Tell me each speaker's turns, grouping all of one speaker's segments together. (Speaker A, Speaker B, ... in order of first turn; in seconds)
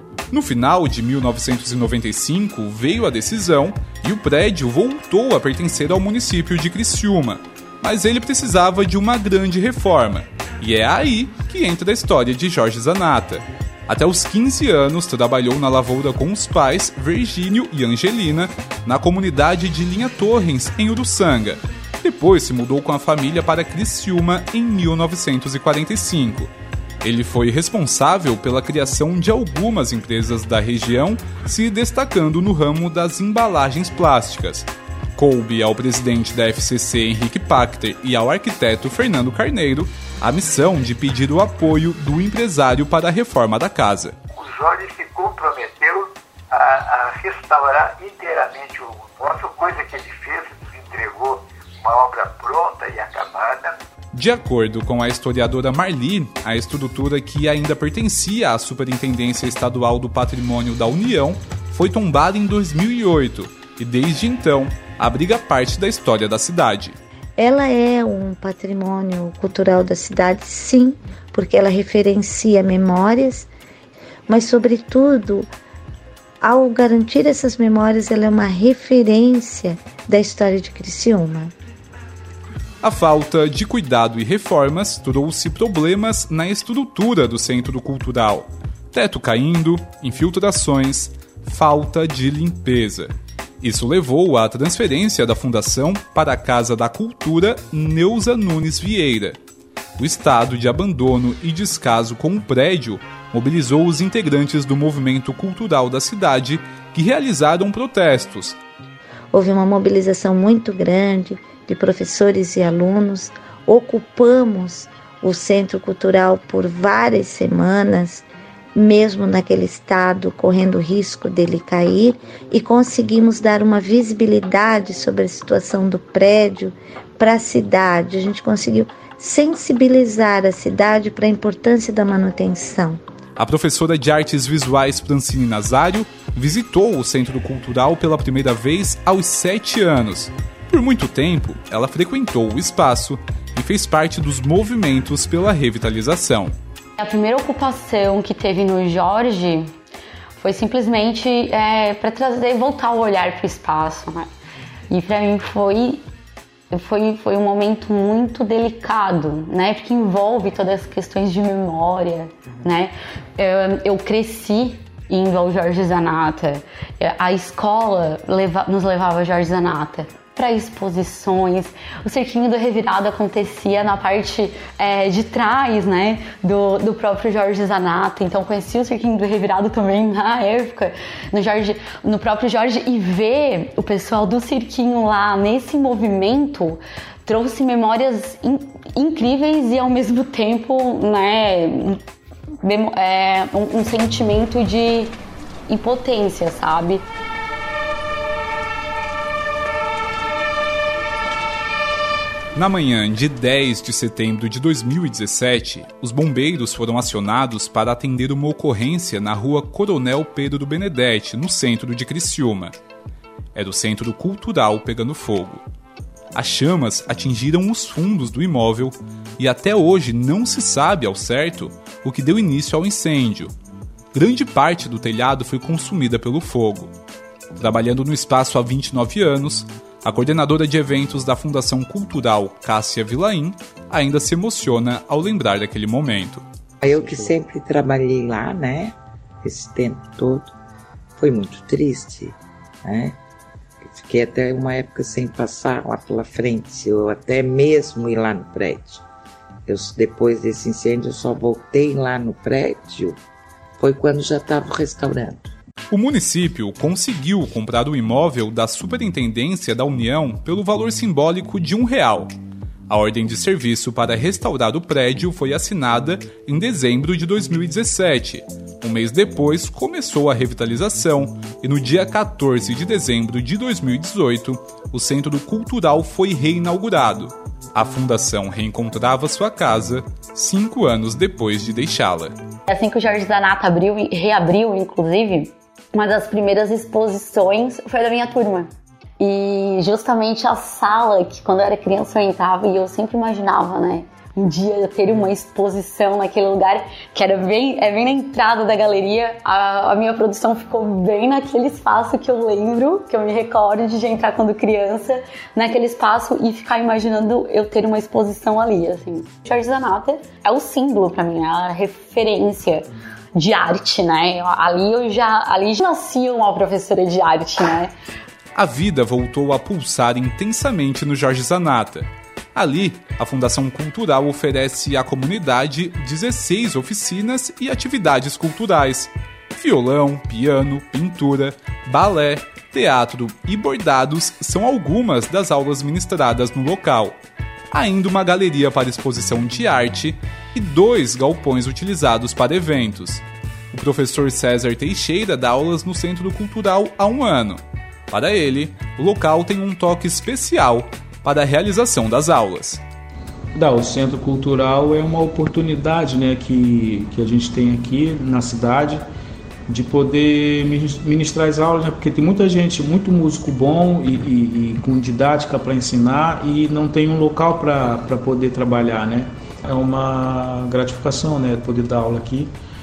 Speaker A: 0.3-26.5, 27.0-44.1, 54.1-67.0, 82.8-99.4, 100.0-108.6, 133.4-146.5, 202.6-212.7, 213.6-215.6, 216.3-223.5, 224.1-226.9, 227.6-236.4, 255.9-262.3, 262.9-282.4, 318.6-337.2, 337.7-352.8
Speaker B: 44.3-53.8
Speaker C: 67.4-73.5, 74.3-75.5, 76.4-81.5, 109.3-133.0
Speaker D: 147.0-149.7, 150.4-154.3, 154.9-156.0, 156.7-192.0, 192.6-195.2, 195.7-197.1, 282.7-317.9
Speaker E: 236.8-240.5, 241.2-243.2, 243.8-249.0, 249.7-253.2, 253.8-255.5
Speaker F: 353.6-359.0, 359.7-372.5